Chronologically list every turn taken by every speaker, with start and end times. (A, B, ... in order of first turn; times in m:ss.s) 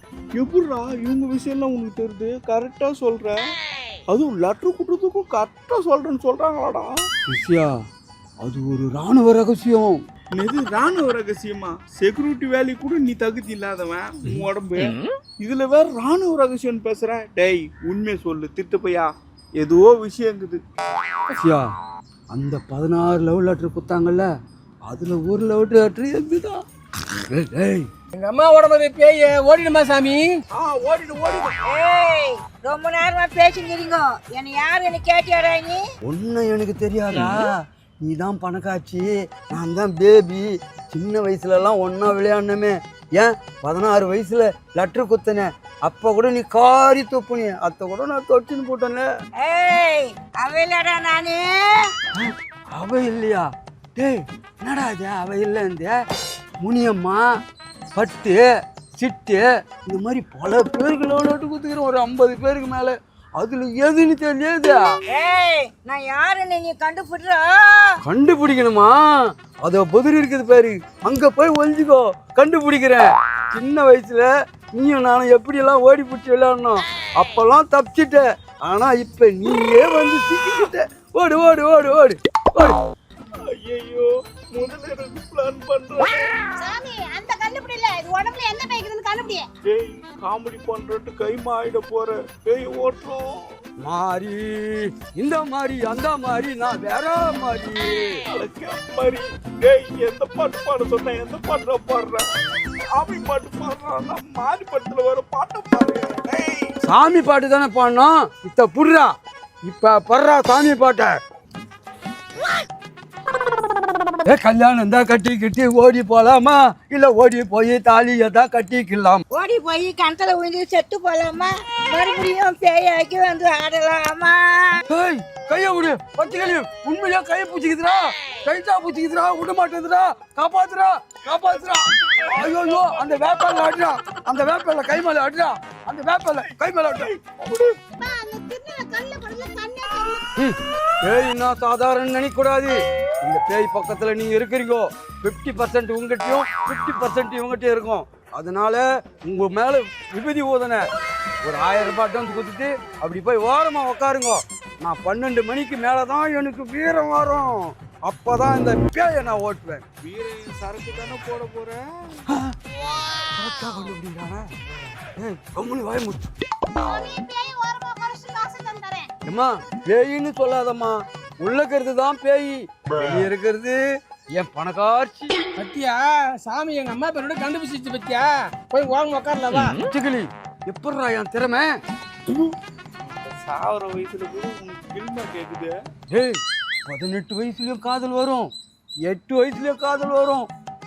0:00.3-0:03.4 A
0:04.1-0:06.9 A
0:07.3-0:07.8 B
0:08.4-0:10.0 B
0:10.4-0:20.6 A
0:21.3-0:21.7 B
0:22.3-0:24.3 B
0:24.9-0:26.6 B
0:27.2-0:27.9 B
0:28.1-0:30.3 C
0:30.6-0:31.4 A
0:31.6-0:35.8 D
0:36.0-0:49.1 B
0:49.4-0:51.9 D
0:52.2-0:56.0 B
0:56.6-0:57.2 B
0:57.9-0:58.4 B
0:59.0-1:04.8 B
1:05.1-1:08.0 D
1:08.0-1:09.0 B
1:09.6-1:22.8 B
1:23.5-1:26.2 A
1:26.6-1:29.5 E
1:29.7-1:33.3 A
1:33.8-1:38.2 B
1:38.3-1:42.3 A
1:42.9-1:46.7 A
1:46.8-1:49.1 B
1:49.6-1:51.2 B
1:54.2-1:59.2 B
1:59.3-2:04.8 D
2:04.9-2:17.1 B
2:12.1-2:13.1 A
2:17.0-2:17.7 A
2:18.0-2:20.2 E
2:20.4-2:30.8 B
2:31.4-2:39.8 B
2:40.0-2:41.8 A
2:42.3-2:42.5 B
2:43.3-2:44.5 B
2:45.1-2:46.3 B
2:46.8-2:49.1 E
2:49.2-2:53.8 B
2:54.3-2:55.4 B
2:55.6-2:59.8 C
2:59.8-3:01.7 B
3:03.1-3:05.7 A
3:06.1-3:08.5 B
3:09.0-3:10.5 B